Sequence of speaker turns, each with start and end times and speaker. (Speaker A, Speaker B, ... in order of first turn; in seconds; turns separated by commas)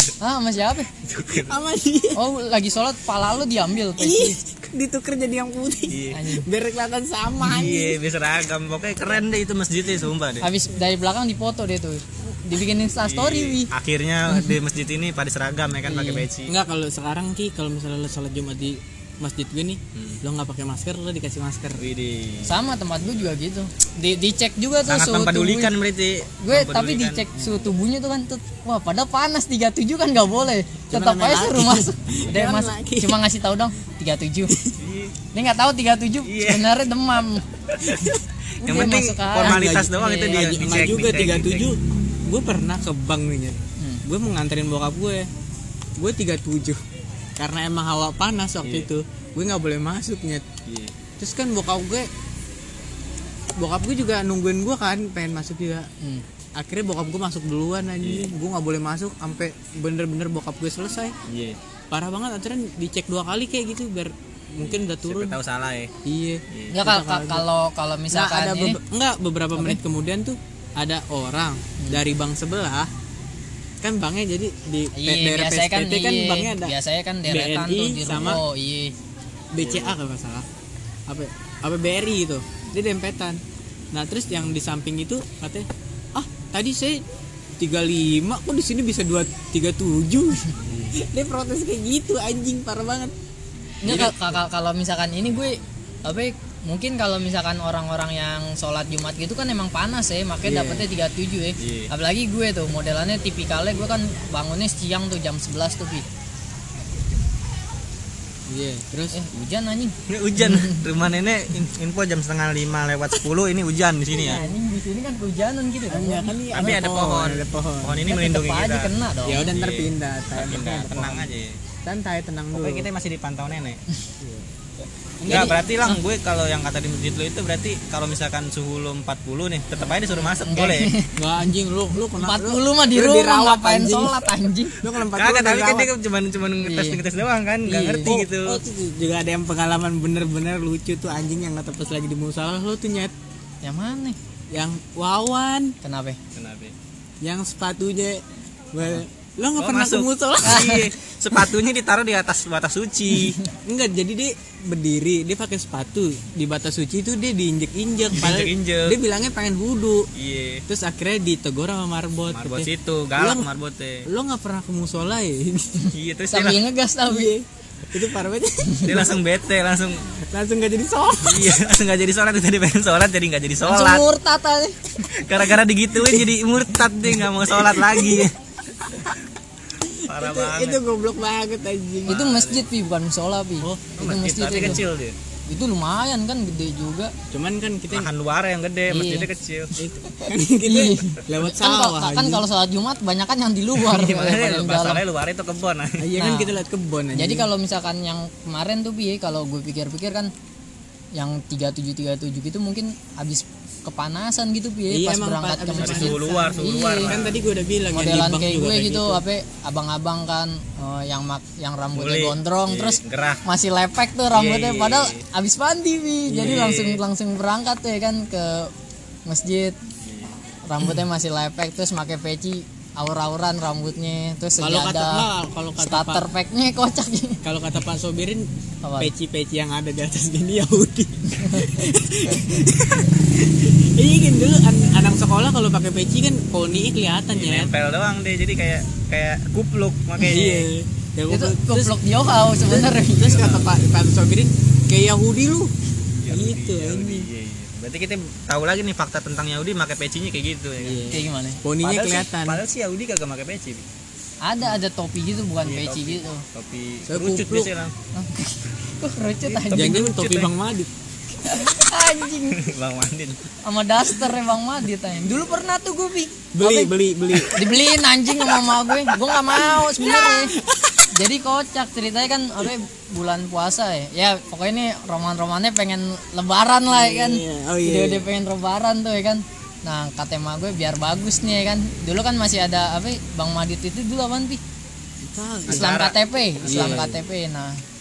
Speaker A: 0.2-0.9, Speaker B: 1.0-1.5, Speaker C: 1.3-2.2, Speaker A: 2.1-4.4, Speaker C: 4.0-8.0, Speaker B: 5.9-6.2, Speaker A: 6.1-6.5, Speaker B: 7.4-10.5, Speaker A: 10.4-13.7, Speaker B: 13.0-16.5, Speaker A: 15.8-16.2, Speaker C: 16.5-21.8, Speaker B: 19.9-20.2, Speaker B: 21.8-22.6, Speaker A: 22.4-25.7, Speaker B: 24.9-27.2, Speaker A: 26.4-34.5, Speaker C: 30.9-33.2, Speaker B: 34.8-35.1, Speaker A: 35.3-37.4, Speaker B: 36.2-36.7, Speaker B: 37.8-38.0, Speaker C: 37.9-38.2, Speaker A: 38.6-40.5, Speaker B: 38.6-41.7, Speaker C: 39.4-45.3, Speaker C: 46.0-46.8, Speaker C: 47.4-50.4, Speaker B: 48.6-48.9, Speaker B: 50.6-51.0, Speaker C: 51.2-52.1, Speaker C: 53.6-55.9, Speaker C: 56.6-61.1, Speaker B: 58.0-58.3, Speaker B: 61.2-61.6, Speaker C: 61.9-65.4, Speaker B: 64.6-65.9, Speaker C: 66.0-67.4, Speaker B: 66.5-66.7, Speaker A: 66.7-68.8, Speaker C: 68.1-72.9, Speaker C: 73.8-76.7, Speaker A: 74.9-78.9, Speaker C: 77.2-78.4, Speaker C: 79.5-80.5, Speaker B: 79.6-80.0, Speaker C: 81.1-83.4, Speaker C: 83.9-87.0, Speaker C: 87.6-93.1, Speaker A: 93.8-106.1, Speaker C: 93.9-94.3, Speaker C: 100.4-100.9, Speaker B: 101.6-101.9, Speaker C: 108.5-109.2, Speaker A: 109.1-110.8, Speaker B: 110.1-114.4, Speaker A: 114.2-116.8, Speaker C: 115.9-118.0, Speaker B: 116.5-118.9, Speaker A: 118.0-119.5, Speaker C: 119.2-121.3, Speaker B: 119.5-121.6, Speaker C: 121.8-122.9, Speaker B: 122.5-123.8, Speaker C: 125.2-125.6, Speaker B: 125.3-130.9, Speaker A: 125.3-126.0, Speaker A: 130.4-131.5, Speaker C: 131.2-135.9, Speaker A: 132.2-134.8, Speaker B: 135.1-138.6, Speaker A: 136.6-137.0, Speaker A: 137.6-138.1, Speaker C: 138.0-143.1, Speaker A: 143.6-144.2, Speaker C: 144.5-145.7, Speaker A: 145.8-146.2, Speaker B: 146.3-146.7, Speaker C: 147.2-148.2, Speaker C: 148.7-150.8, Speaker B: 149.6-153.4, Speaker A: 150.4-150.8, Speaker C: 153.6-160.1, Speaker B: 158.1-159.0, Speaker B: 160.1-160.6, Speaker C: 160.7-163.5, Speaker B: 162.3-164.1, Speaker C: 164.1-165.9, Speaker B: 165.9-166.6, Speaker A: 166.3-167.3, Speaker C: 167.1-169.1, Speaker B: 168.8-170.1, Speaker C: 170.3-171.5, Speaker B: 171.2-174.0, Speaker A: 173.6-174.8, Speaker B: 175.1-178.3, Speaker C: 177.6-178.2, Speaker C: 179.8-182.2, Speaker B: 180.0-180.8, Speaker B: 182.1-182.7, Speaker A: 182.1-184.8, Speaker C: 183.6-184.8, Speaker B: 184.0-185.2, Speaker A: 185.5-187.1, Speaker C: 187.3-188.1, Speaker B: 187.9-189.8, Speaker A: 188.9-189.3, Speaker C: 189.8-192.4, Speaker A: 190.1-195.0, Speaker B: 193.7-196.0, Speaker C: 196.0-197.5, Speaker A: 196.2-196.6, Speaker A: 197.1-200.3, Speaker A: 201.2-207.1, Speaker C: 204.9-206.3, Speaker B: 205.8-207.4, Speaker C: 207.0-209.2, Speaker A: 207.9-218.7, Speaker B: 211.9-213.4, Speaker B: 214.3-215.2, Speaker C: 216.3-216.8, Speaker B: 216.4-217.0, Speaker A: 219.2-219.8, Speaker B: 220.0-220.3, Speaker A: 220.7-225.2, Speaker C: 224.6-226.2, Speaker A: 225.8-227.4, Speaker C: 227.4-228.5, Speaker A: 228.8-229.1, Speaker C: 229.0-237.7, Speaker B: 237.3-240.7, Speaker C: 240.2-241.9, Speaker A: 241.3-243.4, Speaker C: 242.7-245.7, Speaker B: 243.2-243.8, Speaker B: 246.2-251.0, Speaker C: 246.3-247.3, Speaker C: 250.8-252.6, Speaker A: 251.1-251.6, Speaker B: 251.8-253.8, Speaker A: 254.4-256.4, Speaker B: 255.6-257.9, Speaker C: 257.1-257.7, Speaker A: 258.1-260.3, Speaker B: 259.4-260.5, Speaker C: 259.7-260.9, Speaker A: 261.4-262.6, Speaker B: 262.5-263.5, Speaker A: 263.6-270.5, Speaker B: 265.2-265.5, Speaker C: 266.5-267.8, Speaker C: 268.4-271.0, Speaker A: 271.1-284.6, Speaker C: 276.9-278.3, Speaker C: 285.2-285.9, Speaker B: 285.7-286.1, Speaker A: 285.7-287.8, Speaker C: 286.6-287.1, Speaker B: 286.7-287.1